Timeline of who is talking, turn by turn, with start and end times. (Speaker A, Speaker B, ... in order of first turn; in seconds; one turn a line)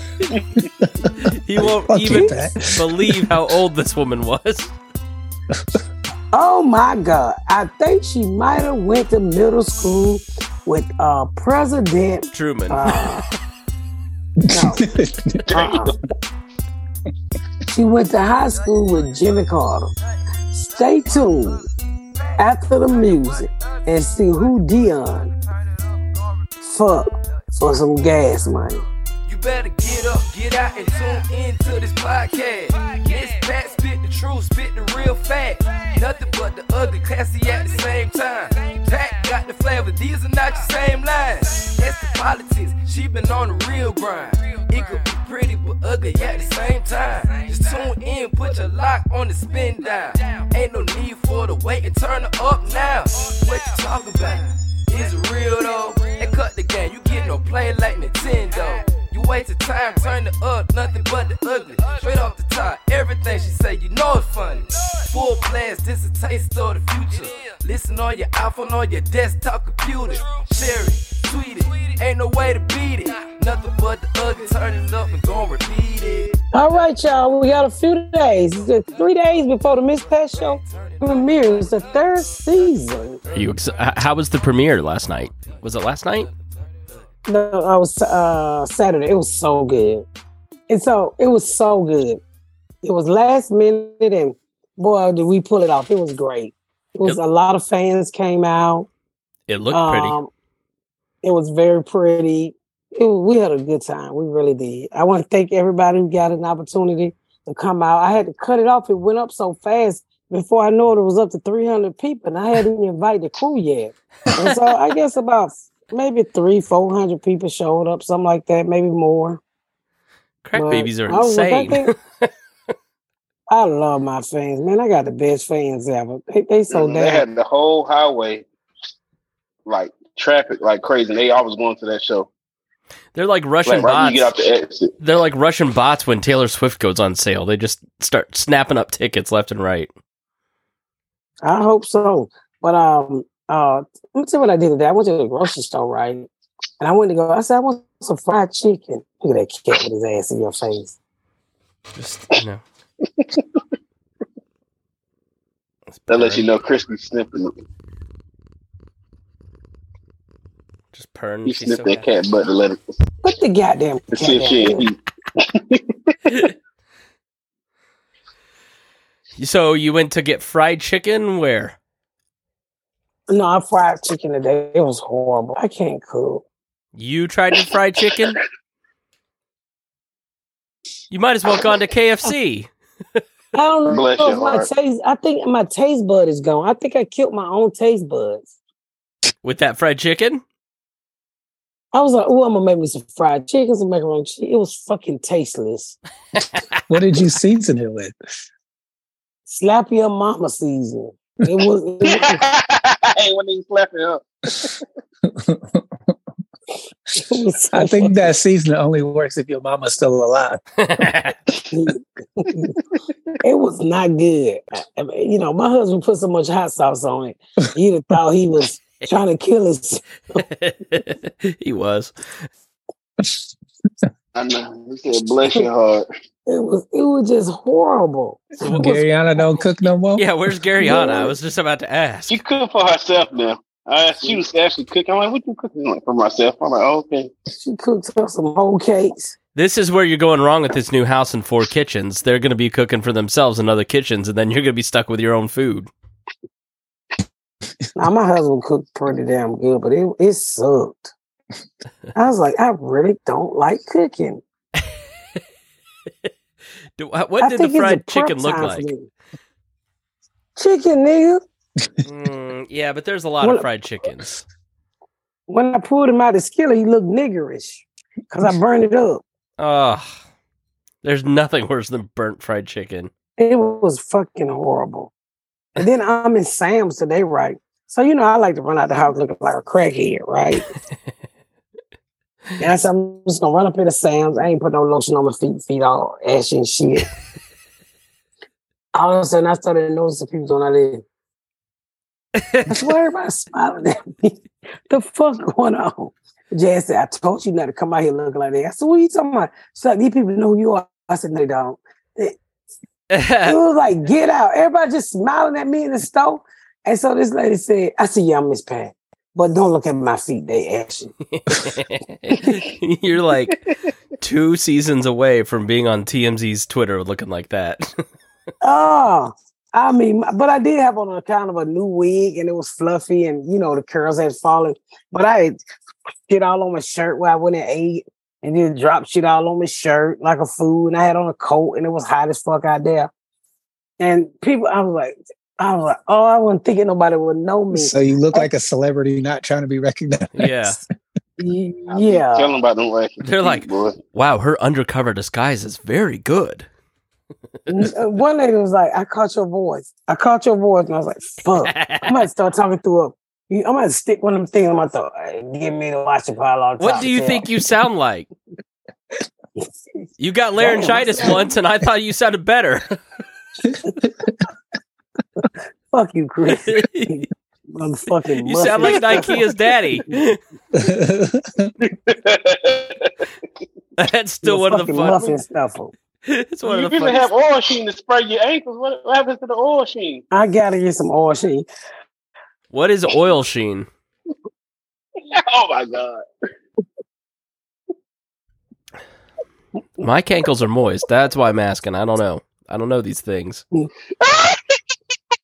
Speaker A: 0.3-0.6
Speaker B: 0.8-3.3
Speaker C: 1.4-4.7
Speaker D: 6.3-13.3
Speaker C: 12.3-13.0
Speaker B: 14.4-15.4
Speaker D: 14.5-14.8
Speaker A: 15.5-15.8
Speaker D: 15.5-16.0
Speaker D: 17.7-19.9
Speaker D: 20.5-21.6
Speaker D: 22.4-25.3
Speaker D: 26.6-28.8
Speaker E: 29.2-76.4
Speaker D: 76.5-83.2
Speaker E: 78.9-82.5
Speaker E: 83.2-84.1
Speaker C: 83.3-86.3
Speaker E: 85.3-85.6
Speaker E: 86.1-86.7
Speaker D: 87.3-90.0
Speaker D: 90.7-92.2
Speaker D: 92.8-98.9
Speaker C: 99.5-100.2
Speaker D: 99.7-100.3
Speaker D: 101.2-119.4
Speaker C: 120.4-122.3
Speaker D: 120.5-121.9
Speaker D: 123.5-127.2
Speaker A: 126.7-128.4
Speaker A: 129.7-132.3
Speaker C: 133.1-134.3
Speaker A: 133.6-134.9
Speaker C: 135.0-139.9
Speaker D: 141.4-146.3
Speaker D: 146.8-150.9
Speaker C: 151.9-152.6
Speaker C: 155.9-156.4
Speaker A: 156.1-157.5
Speaker C: 160.9-162.1
Speaker A: 161.4-162.8
Speaker D: 163.2-164.9
Speaker A: 164.1-166.4
Speaker C: 169.4-171.8
Speaker D: 173.3-176.4
Speaker C: 176.9-178.4
Speaker C: 181.1-182.7
Speaker D: 183.5-188.5
Speaker A: 183.9-184.7
Speaker C: 189.4-190.4
Speaker D: 191.9-196.0
Speaker B: 196.9-198.1
Speaker D: 199.5-202.4
Speaker A: 202.1-204.7
Speaker B: 205.2-206.1
Speaker D: 207.1-208.3
Speaker B: 207.7-211.1
Speaker C: 210.8-211.4
Speaker D: 211.7-212.7
Speaker D: 213.4-220.4
Speaker C: 220.3-222.1
Speaker A: 224.3-226.0
Speaker D: 226.5-229.4
Speaker C: 228.6-229.0
Speaker B: 228.6-230.3
Speaker C: 230.2-232.4
Speaker D: 230.8-231.3
Speaker A: 232.3-237.3
Speaker D: 237.5-239.3
Speaker C: 239.5-245.9
Speaker D: 247.9-251.1
Speaker D: 252.1-254.4
Speaker C: 257.0-258.9
Speaker D: 257.4-259.1
Speaker D: 260.6-261.4
Speaker C: 262.0-264.4
Speaker D: 265.5-269.2
Speaker C: 269.6-270.1
Speaker C: 271.0-273.1
Speaker D: 273.4-275.1
Speaker D: 275.8-280.7
Speaker D: 282.6-287.1
Speaker D: 288.9-291.0
Speaker C: 292.4-292.9
Speaker D: 292.7-302.4
Speaker C: 303.1-303.5
Speaker D: 303.4-311.1
Speaker C: 311.3-313.6
Speaker C: 314.2-317.9
Speaker D: 318.6-325.5
Speaker D: 326.3-333.1
Speaker D: 334.0-338.4
Speaker B: 337.7-340.7
Speaker C: 340.4-340.8
Speaker D: 341.4-342.5
Speaker A: 341.9-344.0
Speaker C: 343.2-346.7
Speaker D: 347.7-357.4
Speaker C: 351.6-352.1
Speaker C: 356.8-358.3
Speaker C: 360.2-363.0
Speaker D: 360.6-361.4
Speaker B: 363.7-364.4
Speaker D: 365.9-369.4
Speaker C: 366.5-367.2
Speaker C: 368.4-370.4
Speaker B: 370.7-371.7
Speaker A: 371.8-373.3
Speaker C: 374.0-375.4
Speaker D: 374.4-375.9
Speaker C: 376.3-377.2
Speaker A: 376.6-380.2
Speaker D: 380.3-381.6
Speaker C: 382.7-383.9
Speaker A: 385.2-386.2
Speaker C: 390.0-393.6
Speaker A: 394.2-394.8